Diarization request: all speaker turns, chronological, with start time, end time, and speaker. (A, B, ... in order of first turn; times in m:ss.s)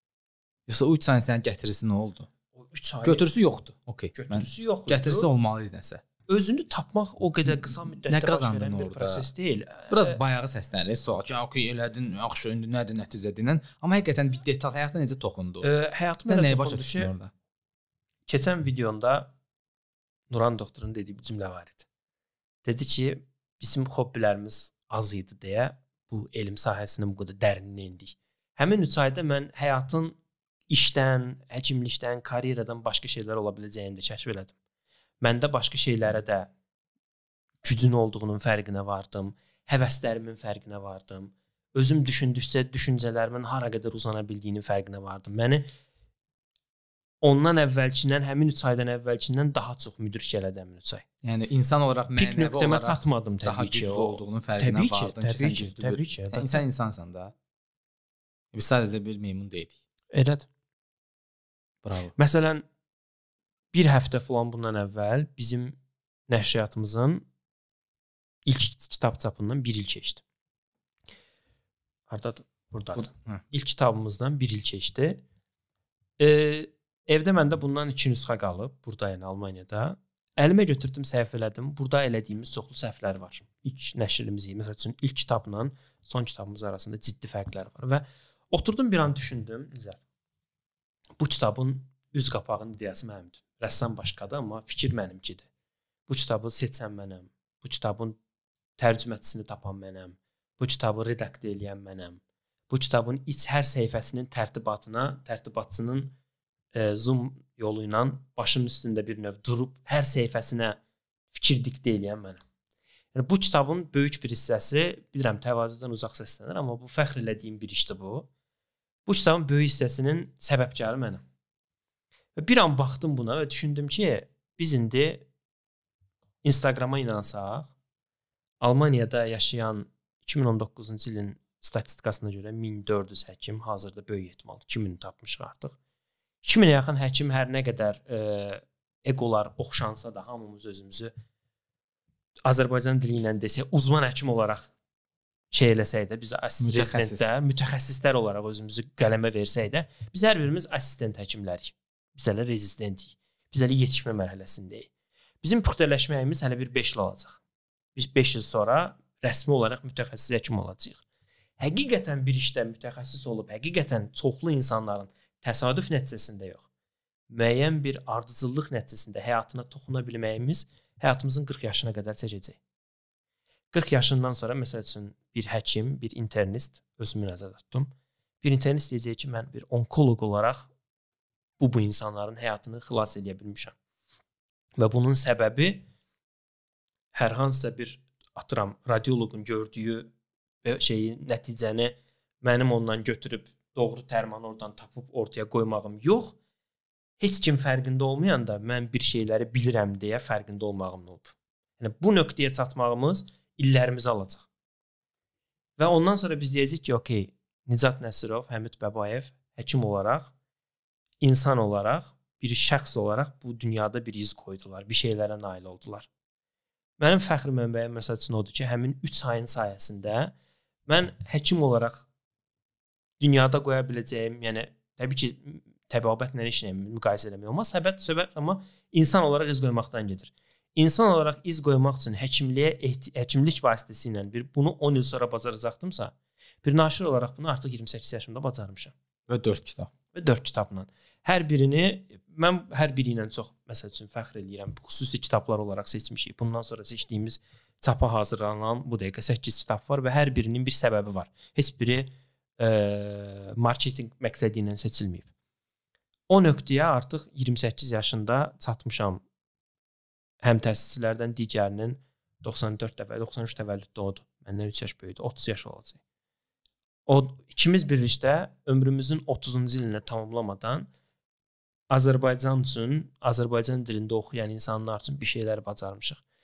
0:00.7-0:02.3 A
0:02.5-0:03.3 B
0:03.0-0:06.0 A
0:04.1-0:05.3 B
0:06.3-0:10.2 B
0:07.5-0:09.3 A
0:09.9-0:15.7 A
0:15.6-0:17.1 B
0:16.2-0:17.3 A
0:18.3-0:19.3 B
0:20.3-0:21.8 B
0:22.6-0:30.2 B
0:30.7-0:34.5 B
0:35.2-0:36.5 B
0:37.6-0:45.7 B
0:47.2-0:51.0 B
0:51.2-0:57.3 A
0:52.2-0:56.6 B
0:58.5-0:59.7 A
1:00.1-1:00.5 B
1:01.8-1:02.1 A
1:02.2-1:02.6 B
1:03.7-1:05.8 B
1:06.3-1:07.2 B
1:08.4-1:10.2 B
1:12.1-1:15.2 B
1:12.9-1:13.4 A
1:16.2-1:30.0 B
1:31.2-1:35.4 B
1:36.1-1:38.2 B
1:38.8-1:46.1 B
1:46.7-1:50.8 B
1:51.3-1:52.4 B
1:53.1-1:58.3 B
1:59.0-2:01.2 B
2:02.4-2:05.3 B
2:06.4-2:07.7 B
2:08.6-2:15.8 B
2:16.4-2:21.1 B
2:22.4-2:24.7 B
2:25.5-2:34.9 B
2:26.6-2:27.3 A
2:35.4-2:37.4 B
2:38.0-2:41.0 B
2:41.6-2:46.6 B
2:47.3-2:52.6 B
2:53.7-3:00.7 B
3:01.6-3:03.7 B
3:04.8-3:05.8 B
3:07.1-3:10.1 B
3:10.6-3:16.4 B
3:17.2-3:24.5 B
3:25.8-3:30.3 B
3:31.2-3:36.1 B
3:37.0-3:40.3 B
3:40.9-3:42.0 B
3:43.2-3:58.9 B
3:59.3-3:59.9 A
4:00.1-4:15.3 B
4:16.3-4:19.2 B
4:20.4-4:26.0 B
4:27.1-4:30.9 B
4:31.9-4:36.2 B